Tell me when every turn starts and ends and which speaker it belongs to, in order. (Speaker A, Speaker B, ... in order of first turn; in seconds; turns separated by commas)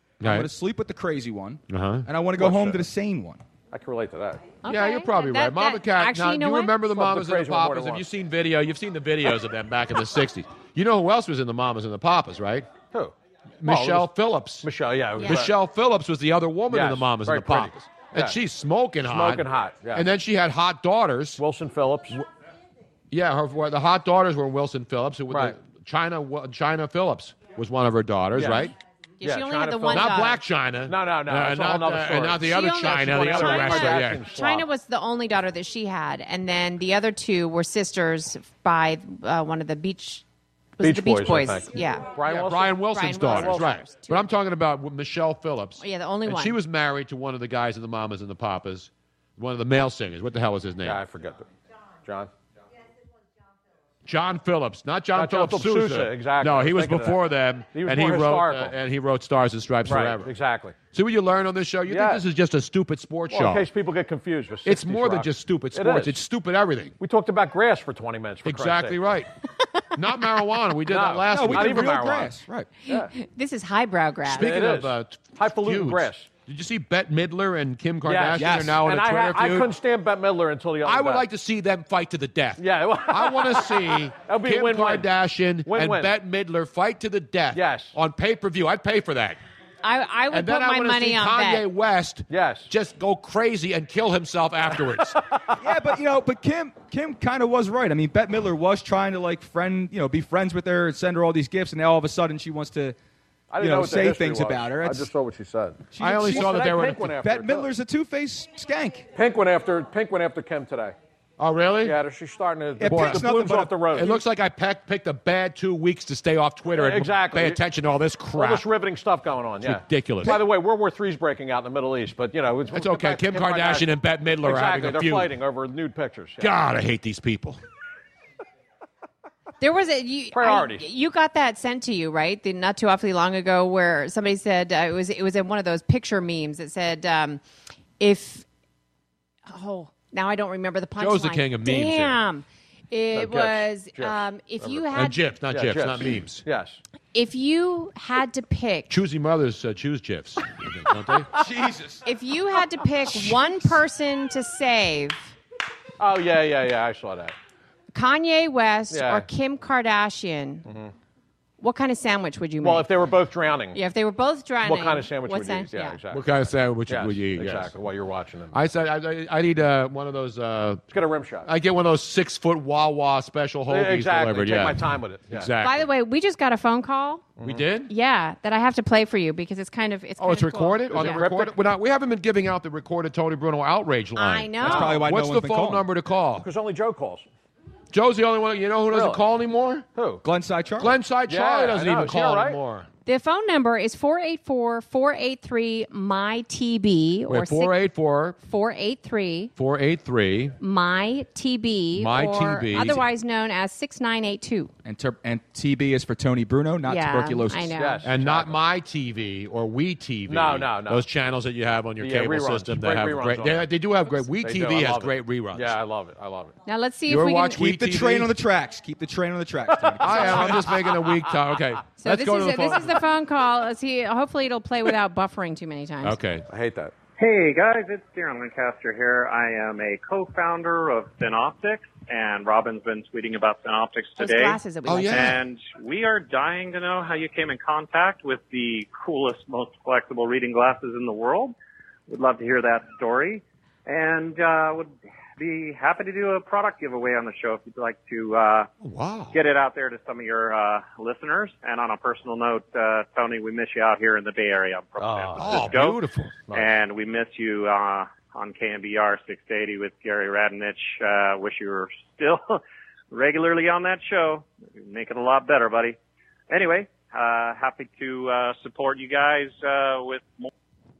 Speaker A: 0.2-0.5, Speaker B: 0.2-3.4, Speaker A: 1.7-2.1, Speaker C: 2.4-2.8, Speaker C: 3.7-4.5, Speaker D: 4.6-6.7, Speaker A: 4.7-12.7, Speaker C: 6.9-8.1, Speaker C: 12.9-14.1, Speaker A: 13.6-14.7, Speaker C: 14.6-15.5, Speaker A: 15.2-21.4, Speaker C: 16.7-18.4, Speaker C: 19.0-20.1, Speaker C: 21.4-22.2, Speaker A: 23.1-28.7, Speaker C: 25.3-25.6, Speaker C: 28.3-34.7, Speaker D: 29.2-30.4, Speaker A: 29.9-34.2, Speaker D: 32.4-40.2, Speaker D: 40.8-42.1, Speaker C: 40.8-43.7, Speaker A: 42.3-51.0, Speaker D: 42.9-44.3, Speaker D: 45.8-46.6, Speaker C: 50.8-51.5, Speaker C: 52.0-52.3, Speaker A: 54.0-60.3, Speaker C: 55.1-58.8, Speaker C: 59.9-60.8, Speaker A: 60.9-63.6, Speaker C: 61.9-62.2, Speaker C: 63.3-66.2, Speaker A: 64.7-66.9, Speaker C: 67.0-69.0, Speaker A: 68.5-69.3, Speaker A: 69.9-72.1, Speaker C: 70.9-73.1, Speaker B: 71.3-72.7, Speaker D: 72.9-74.5, Speaker A: 74.3-79.7, Speaker C: 74.3-76.3, Speaker C: 78.0-81.3, Speaker B: 78.4-78.8, Speaker A: 80.8-89.4, Speaker C: 82.6-85.1, Speaker C: 85.7-86.1, Speaker C: 87.5-88.0, Speaker D: 89.8-91.7, Speaker A: 90.3-95.2, Speaker C: 92.3-92.7, Speaker C: 95.3-95.6, Speaker B: 95.6-103.0, Speaker C: 103.5-107.7, Speaker B: 103.6-105.1, Speaker B: 105.9-109.1, Speaker A: 106.0-107.2, Speaker C: 109.1-111.0, Speaker A: 111.4-112.0, Speaker C: 111.8-114.2, Speaker B: 112.8-114.2, Speaker A: 112.9-118.6, Speaker C: 116.7-117.6, Speaker C: 118.4-126.5, Speaker A: 119.6-120.4, Speaker A: 122.7-125.3, Speaker A: 126.4-127.6, Speaker D: 129.6-137.4, Speaker C: 130.3-130.8, Speaker D: 138.0-138.4, Speaker D: 139.5-145.2, Speaker A: 141.0-142.2, Speaker C: 143.2-144.9, Speaker A: 144.9-146.4, Speaker C: 145.5-146.8, Speaker D: 147.1-148.9, Speaker A: 148.9-151.3, Speaker B: 151.3-152.0, Speaker D: 152.1-155.3, Speaker C: 156.0-157.3, Speaker D: 157.9-160.7, Speaker C: 158.9-159.3, Speaker C: 160.7-160.9, Speaker D: 161.6-162.9, Speaker C: 162.6-163.8, Speaker D: 163.7-166.0, Speaker C: 164.6-168.6, Speaker A: 166.1-167.7, Speaker A: 168.5-170.8, Speaker C: 170.9-171.5, Speaker A: 171.4-175.9, Speaker C: 173.7-175.5, Speaker D: 175.6-177.3, Speaker C: 177.4-177.7, Speaker A: 177.4-177.9, Speaker D: 177.9-181.2, Speaker A: 180.2-186.5, Speaker C: 180.9-181.6, Speaker D: 184.2-185.0, Speaker C: 184.6-185.0, Speaker B: 184.6-185.9, Speaker C: 186.4-187.3, Speaker A: 187.9-189.9, Speaker C: 188.9-189.2, Speaker C: 190.0-190.2, Speaker B: 190.2-191.0, Speaker A: 190.8-192.9, Speaker C: 191.3-192.6, Speaker D: 193.1-197.8, Speaker A: 197.3-198.4, Speaker D: 198.4-199.5, Speaker A: 199.6-200.6, Speaker D: 200.6-204.7, Speaker A: 201.9-203.1, Speaker B: 204.8-207.8, Speaker D: 206.9-208.0, Speaker C: 207.8-208.6, Speaker A: 208.0-215.8, Speaker C: 210.3-211.1, Speaker C: 212.0-213.7, Speaker C: 214.4-216.5, Speaker D: 216.7-217.6, Speaker A: 217.1-218.3, Speaker B: 217.5-220.8, Speaker A: 220.0-223.0, Speaker D: 222.0-226.2, Speaker A: 226.0-226.5, Speaker C: 226.5-226.9, Speaker E: 227.2-234.6, Speaker D: 234.2-235.3, Speaker A: 234.9-235.4, Speaker E: 235.1-241.6, Speaker E: 242.1-248.7, Speaker A: 248.8-249.4, Speaker E: 249.3-266.0, Speaker C: 255.0-255.7, Speaker A: 255.4-256.4, Speaker E: 266.5-270.5